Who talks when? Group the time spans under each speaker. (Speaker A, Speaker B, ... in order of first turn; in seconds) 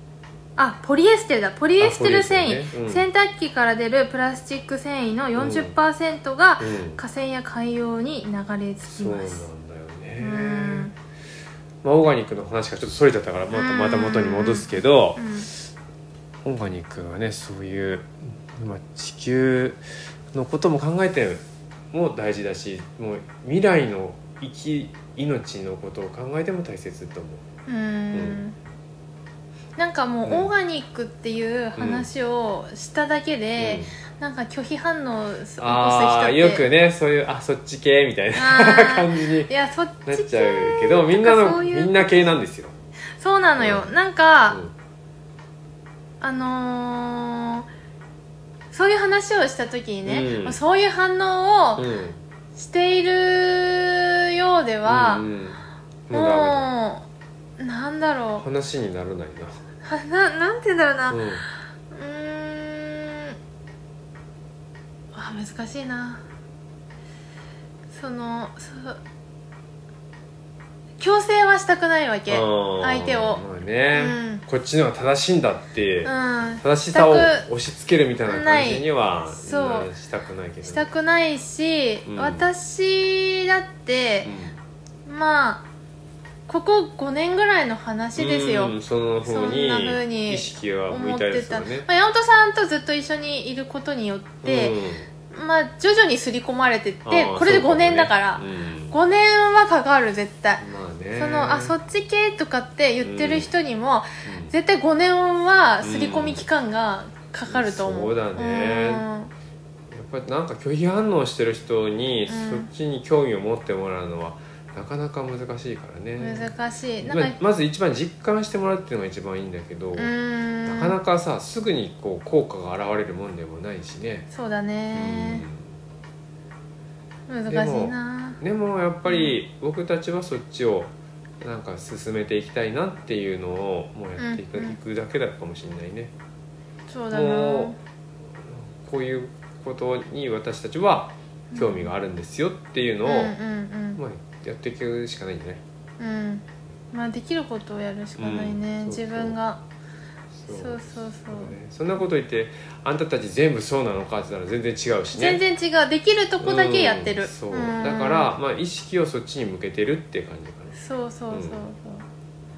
Speaker A: 0.6-9.5, 10.2-10.9, 13.5-15.5, 27.7-28.6, 29.8-36.6, 38.3-42.0, 43.2-44.6, 46.2-47.7, 48.7-51.8, 52.5-55.2, 56.1-57.0, 57.6-58.4, 59.8-61.2, 61.9-63.4, 65.1-66.2, 67.9-69.0, 71.0-73.4, 73.9-74.4, 76.0-77.5, 78.3-79.9, 80.6-84.3, 85.0-85.6, 86.5-94.8, 95.3-100.6, 101.2-109.3, 112.3-112.7, 116.2-117.4, 119.9-121.0, 124.3-125.4, 127.3-128.4, 129.1-129.3, 134.2-134.8, 136.9-137.8, 141.5-141.9, 143.0-144.0, 146.0-149.6, 150.5-151.5, 155.1-158.3, 160.8-162.1
Speaker B: 1.8-3.0, 5.3-5.7, 6.6-7.0, 8.9-10.9, 11.8-15.7, 16.4-27.4, 28.1-28.4, 30.2-30.5, 31.8-32.1, 33.6-34.0, 35.6-39.5, 40.0-42.7, 43.6-43.9, 50.0-50.6, 51.8-52.2, 54.8-56.7, 58.4-59.6, 61.1-61.4, 72.3-80.9, 82.0-82.5, 84.2-84.5, 88.2-91.9, 94.4-95.1, 97.0-99.0, 100.6-101.8, 103.0-103.5, 104.2-104.5, 105.8-106.5, 107.5-109.0, 109.9-120.1, 120.7-124.3, 124.9-125.7, 127.5-136.1, 137.1-137.7, 138.8-143.4, 143.9-145.6, 148.2-149.4, 150.3-155.4, 156.4-160.8, 161.3-161.6